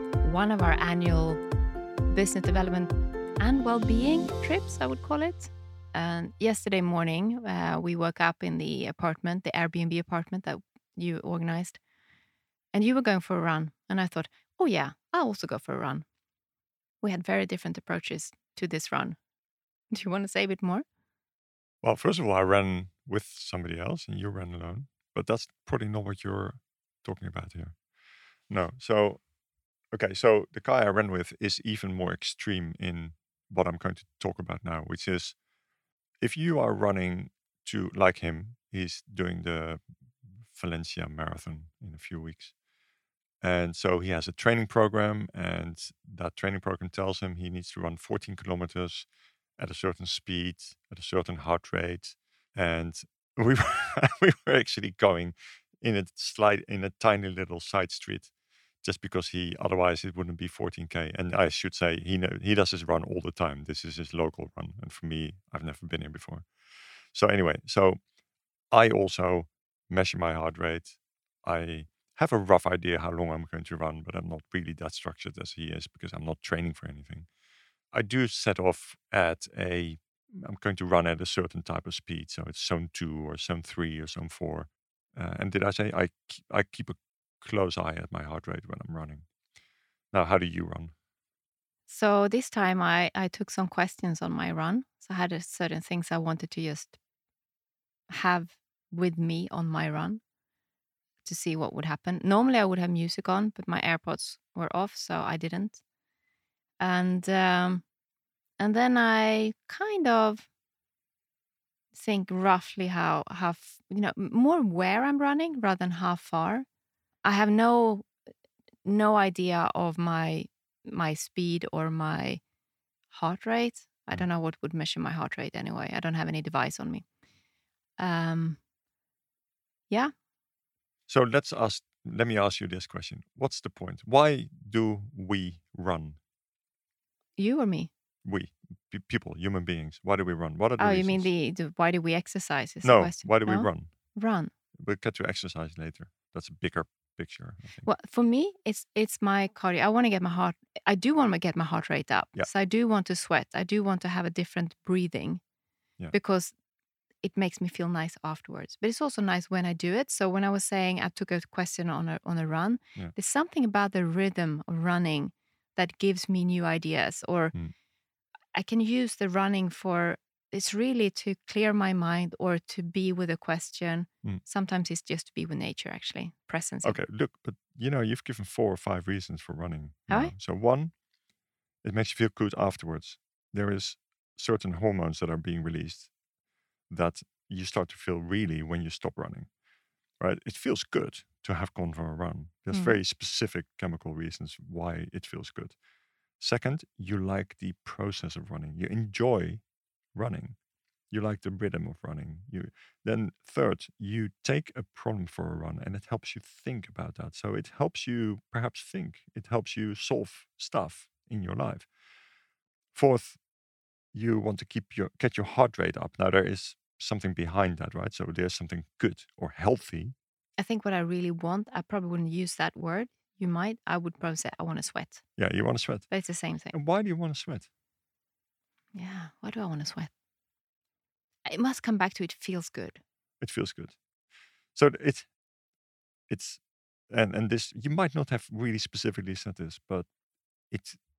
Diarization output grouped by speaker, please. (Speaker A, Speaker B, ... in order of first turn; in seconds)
Speaker A: 0.2-1.4, 2.1-11.8, 12.7-16.1, 17.0-19.2, 19.9-20.9, 91.9-97.0, 98.1-100.2, 101.2-105.8, 106.8-107.8, 108.6-110.5, 111.9-116.7, 117.2-118.1, 118.8-122.4, 123.1-127.1, 128.0-128.6, 137.4-137.9, 140.8-144.5, 147.8-155.4, 156.1-156.5, 157.2-167.6, 168.5-177.0, 180.1-180.3, 192.7-193.0, 220.6-225.2, 226.1-226.8, 228.9-230.1, 231.5-233.0
Speaker B: 21.8-27.8, 28.5-29.2, 29.9-35.4, 36.2-42.5, 43.4-58.3, 58.8-66.5, 67.1-68.0, 68.7-77.3, 77.9-89.3, 90.1-90.9, 131.1-136.2, 138.2-141.3, 142.8-143.9, 144.8-147.9, 176.8-180.9, 181.8-186.1, 186.9-189.5, 190.2-195.8, 196.4-199.6, 200.1-200.6, 201.1-211.9, 212.9-213.4, 214.1-220.2, 225.4-226.1, 226.7-227.7, 233.4-234.0, 234.8-235.3, 236.3-240.1, 240.7-241.0